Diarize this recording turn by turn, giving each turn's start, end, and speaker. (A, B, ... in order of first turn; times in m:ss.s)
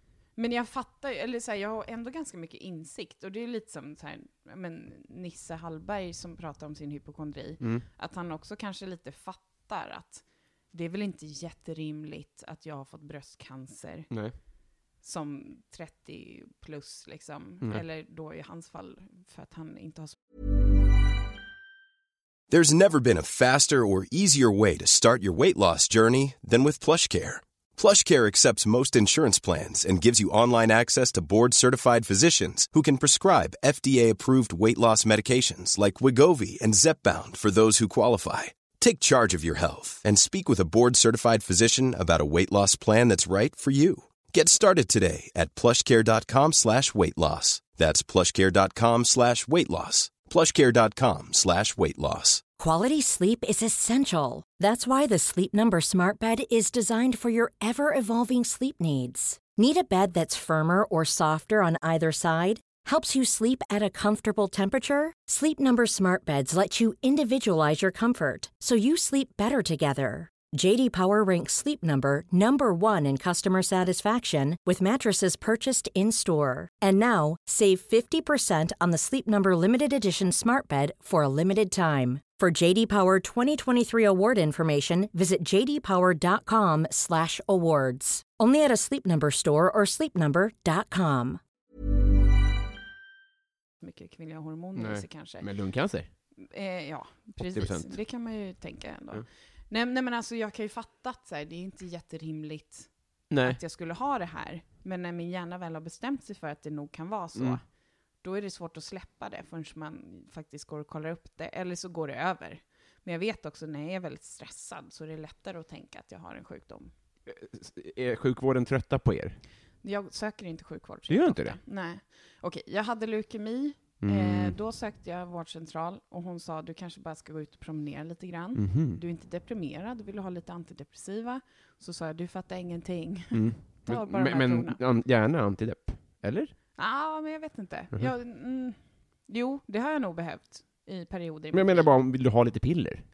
0:00.4-0:14.1 A
0:07.6-0:07.9 B
0:14.1-0:14.3 B
0:15.0-0:20.2 A
0:22.5-0:52.4 C
0:52.6-1:31.4 D
1:33.8-1:35.5 A
1:34.7-1:36.1 B
1:36.4-1:47.6 A
1:37.4-1:38.0 B
1:43.3-1:43.6 B
1:48.2-1:56.9 A
1:57.3-1:59.4 B
1:59.8-2:14.8 A
2:01.1-2:01.6 B
2:04.0-2:04.5 B
2:08.5-2:09.0 B
2:13.3-2:16.5 B
2:16.8-2:21.9 A
2:21.5-2:23.0 B